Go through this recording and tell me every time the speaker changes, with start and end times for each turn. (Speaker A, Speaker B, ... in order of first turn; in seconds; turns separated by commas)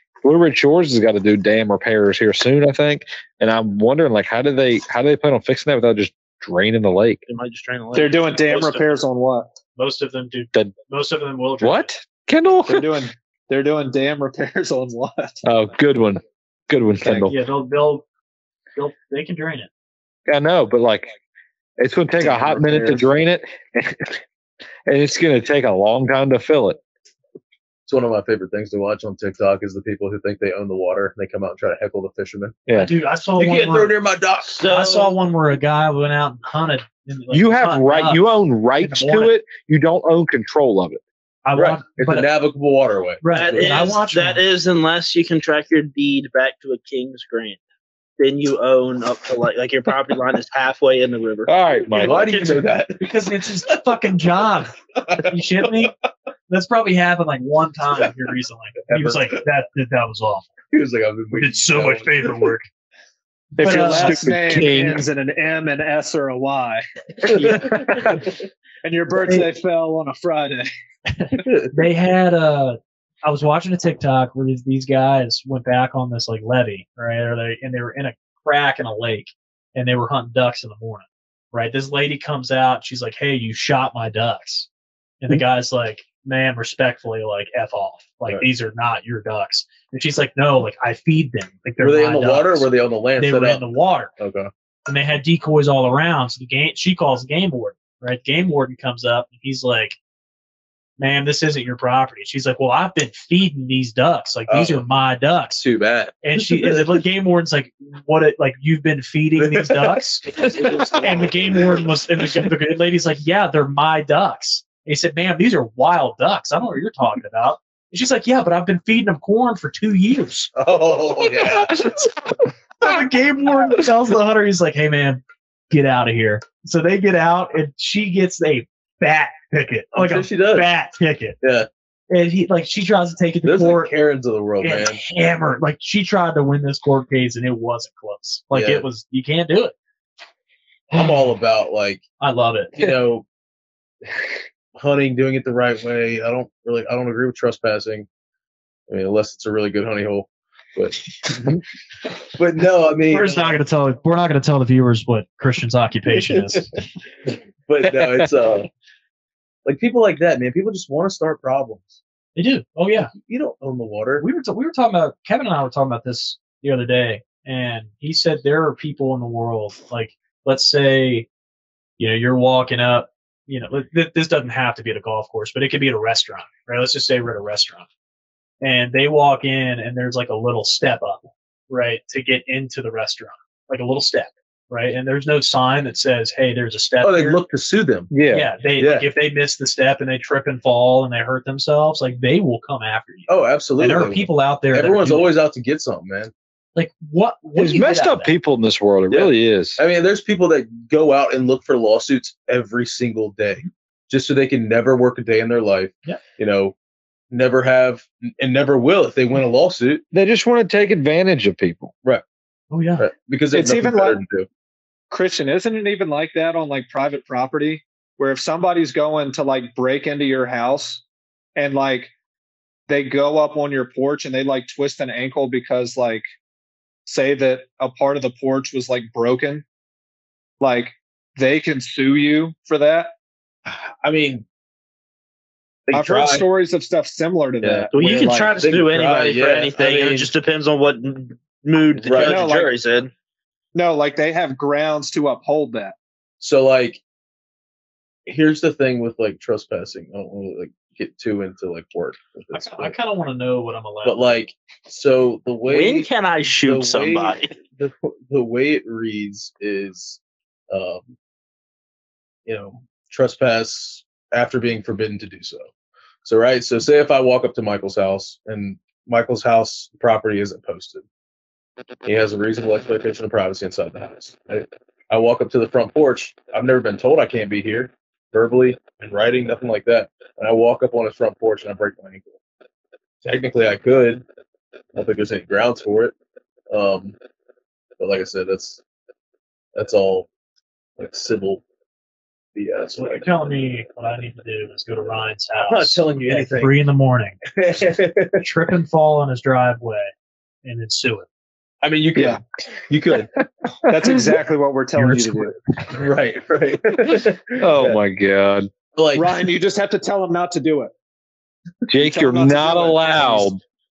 Speaker A: 0.2-7.2, Speaker B: 7.3-8.7, Speaker C: 7.9-9.5, Speaker D: 9.8-11.9, Speaker A: 11.6-13.0, Speaker C: 12.7-15.4, Speaker A: 15.4-17.4, Speaker C: 17.0-17.3, Speaker D: 17.3-18.1, Speaker D: 18.8-19.7, Speaker A: 20.3-21.1, Speaker A: 21.8-24.2, Speaker C: 22.2-23.0, Speaker A: 24.9-26.8, Speaker E: 27.9-32.6, Speaker D: 32.7-33.9, Speaker E: 33.4-34.6, Speaker B: 34.5-35.1, Speaker D: 34.6-39.4, Speaker A: 37.3-41.0, Speaker D: 41.5-42.3, Speaker E: 41.5-43.7, Speaker D: 43.2-44.4, Speaker B: 43.3-47.6, Speaker B: 48.2-51.5, Speaker A: 51.5-52.4, Speaker E: 51.9-53.7, Speaker D: 52.0-55.9, Speaker E: 55.0-55.9, Speaker D: 56.5-60.5, Speaker E: 58.9-59.4, Speaker E: 60.7-62.4, Speaker D: 61.3-62.7, Speaker D: 63.6-64.3, Speaker A: 63.6-65.1, Speaker C: 63.6-68.3, Speaker E: 67.3-68.2, Speaker C: 68.8-70.7, Speaker D: 71.1-84.7, Speaker E: 71.4-71.8, Speaker D: 85.2-94.1, Speaker E: 91.8-93.7, Speaker E: 94.2-94.5, Speaker D: 94.9-100.0, Speaker D: 101.0-105.7, Speaker E: 104.5-104.8, Speaker E: 105.6-107.0, Speaker D: 106.2-120.5, Speaker E: 109.4-111.8, Speaker E: 120.6-121.9, Speaker D: 121.4-122.1, Speaker D: 122.8-131.4, Speaker E: 129.9-130.7, Speaker E: 131.4-131.7, Speaker D: 132.1-133.9, Speaker E: 133.4-135.0, Speaker D: 134.6-139.8, Speaker E: 138.5-138.8, Speaker E: 140.9-142.0, Speaker D: 142.2-142.9, Speaker E: 142.8-143.3, Speaker E: 144.8-148.1, Speaker E: 148.9-151.6, Speaker E: 152.4-153.5, Speaker D: 153.1-156.7, Speaker E: 156.1-156.7, Speaker E: 157.7-158.7, Speaker A: 157.9-158.2, Speaker E: 159.7-162.0, Speaker D: 162.4-163.1, Speaker E: 163.2-164.2, Speaker D: 164.2-171.3, Speaker D: 172.0-177.9, Speaker D: 178.6-187.4, Speaker E: 187.0-188.1, Speaker A: 188.1-188.5, Speaker D: 188.3-195.3, Speaker E: 188.8-189.1, Speaker E: 193.3-196.3, Speaker D: 196.8-198.3, Speaker A: 197.6-199.8, Speaker E: 199.1-206.8, Speaker E: 207.3-210.0, Speaker A: 210.1-211.9, Speaker D: 212.7-213.1, Speaker E: 213.0-214.5, Speaker C: 213.5-214.2, Speaker C: 215.1-221.0, Speaker C: 221.6-222.1, Speaker C: 222.9-226.2, Speaker C: 227.1-229.7, Speaker C: 230.6-233.1, Speaker E: 233.7-234.4, Speaker E: 235.9-236.5, Speaker C: 235.9-238.7, Speaker E: 237.6-237.9, Speaker B: 237.9-243.1, Speaker E: 238.5-240.3, Speaker E: 242.0-242.5, Speaker C: 242.2-242.7, Speaker C: 243.7-245.9, Speaker E: 246.4-247.0, Speaker E: 248.3-252.9, Speaker D: 252.5-254.5, Speaker E: 254.0-261.1, Speaker B: 255.7-257.5, Speaker E: 262.5-265.7, Speaker E: 266.2-271.0, Speaker E: 272.1-282.4, Speaker E: 283.2-284.2, Speaker E: 284.9-286.1, Speaker E: 286.7-287.2, Speaker E: 288.0-288.8, Speaker E: 289.8-290.3, Speaker E: 291.0-291.6, Speaker E: 292.6-293.3, Speaker D: 293.0-297.4, Speaker E: 295.6-296.8, Speaker E: 297.5-298.5, Speaker D: 298.4-300.1, Speaker D: 300.6-301.3, Speaker E: 301.8-303.3, Speaker C: 302.1-302.4, Speaker A: 303.9-304.4, Speaker C: 303.9-305.6, Speaker A: 305.0-305.4, Speaker E: 305.9-308.0, Speaker A: 307.6-308.7, Speaker E: 308.9-309.4, Speaker C: 309.1-310.9, Speaker A: 311.9-313.6, Speaker C: 312.0-313.5